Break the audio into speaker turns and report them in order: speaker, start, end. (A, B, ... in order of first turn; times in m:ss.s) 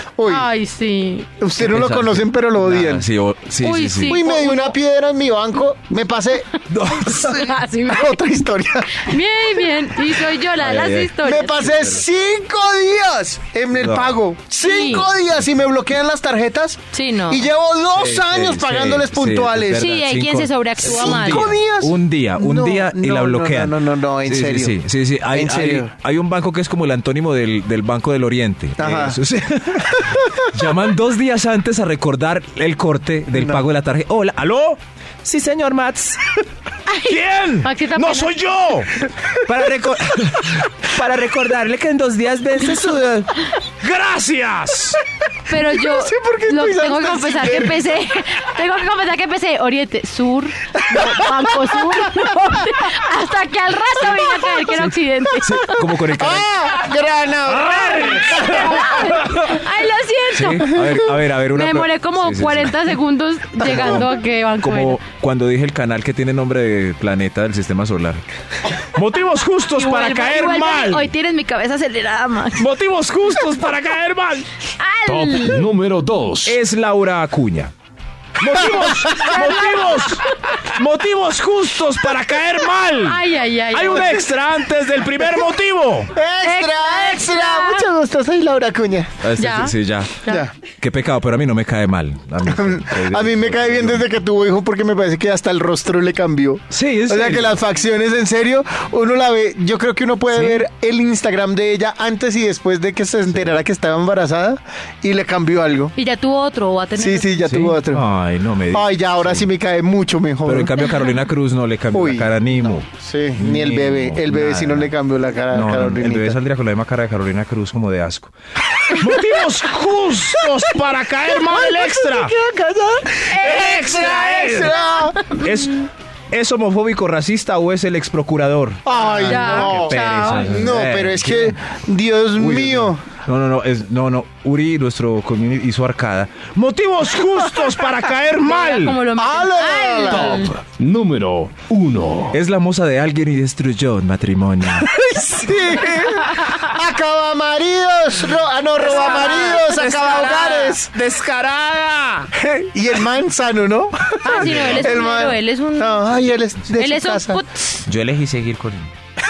0:00.2-0:00.5 A
0:00.3-0:01.3 B
0:01.4-0:03.1 A
0:01.6-0:04.2 C
0:03.6-0:04.7 B
0:04.1-0:06.5 A
0:06.7-0:07.2 C
0:06.8-0:08.2 B
0:07.1-0:09.2 A
0:08.9-0:11.6 B
0:10.6-0:12.0 C
0:11.2-0:19.9 A
0:13.8-0:14.2 C
0:14.6-0:15.1 B
0:16.9-0:17.5 B
0:17.9-0:36.4 C
0:19.8-0:21.5 B
0:20.8-0:24.8 A
0:25.3-0:25.9 A
0:28.8-0:29.2 A
0:29.9-0:30.2 A
0:33.4-0:33.6 A
0:36.9-0:38.3 B
0:37.0-0:45.0 C
0:45.5-0:55.7 B
0:45.7-0:48.0 A
0:50.9-0:52.6 A
0:54.7-0:56.5 C
0:55.8-0:59.2 A
0:57.5-0:58.6 C
0:57.9-1:00.8 B
0:59.2-0:59.6 C
1:00.3-1:03.0 C
1:00.7-1:01.0 A
1:01.5-1:05.0 B
1:03.6-1:08.2 C
1:08.8-1:11.1 C
1:09.7-1:12.7 B
1:12.6-1:14.5 C
1:14.8-1:15.6 B
1:15.1-1:16.6 D
1:16.4-1:17.7 C
1:18.4-1:26.2 C
1:18.6-1:20.5 B
1:18.6-1:19.5 A
1:23.0-1:24.2 B
1:26.2-1:29.1 A
1:26.4-1:27.8 B
1:29.2-1:30.1 C
1:29.4-1:30.4 B
1:30.2-1:30.5 A
1:30.8-1:34.1 C
1:32.4-1:45.9 A
1:36.7-1:37.6 C
1:40.3-1:40.7 C
1:46.0-1:47.4 B
1:47.0-1:48.0 A
1:47.4-1:49.5 C
1:48.7-1:50.9 A
1:50.4-1:54.9 C
1:51.9-1:56.4 A
1:55.5-1:58.3 C
1:58.9-2:02.3 C
2:01.3-2:05.2 A
2:03.3-2:04.0 B
2:03.3-2:04.8 C
2:04.6-2:05.4 B
2:05.3-2:11.6 C
2:08.9-2:13.0 A
2:09.2-2:10.7 B
2:12.4-2:19.0 C
2:18.5-2:20.6 B
2:19.2-2:20.5 A
2:20.1-2:22.4 D
2:22.3-2:24.9 C
2:24.8-2:30.9 A
2:28.8-2:32.3 C
2:28.8-2:29.7 B
2:32.4-2:37.4 A
2:34.2-2:36.0 B
2:34.2-2:35.0 C
2:36.7-2:37.8 B
2:37.8-2:38.9 C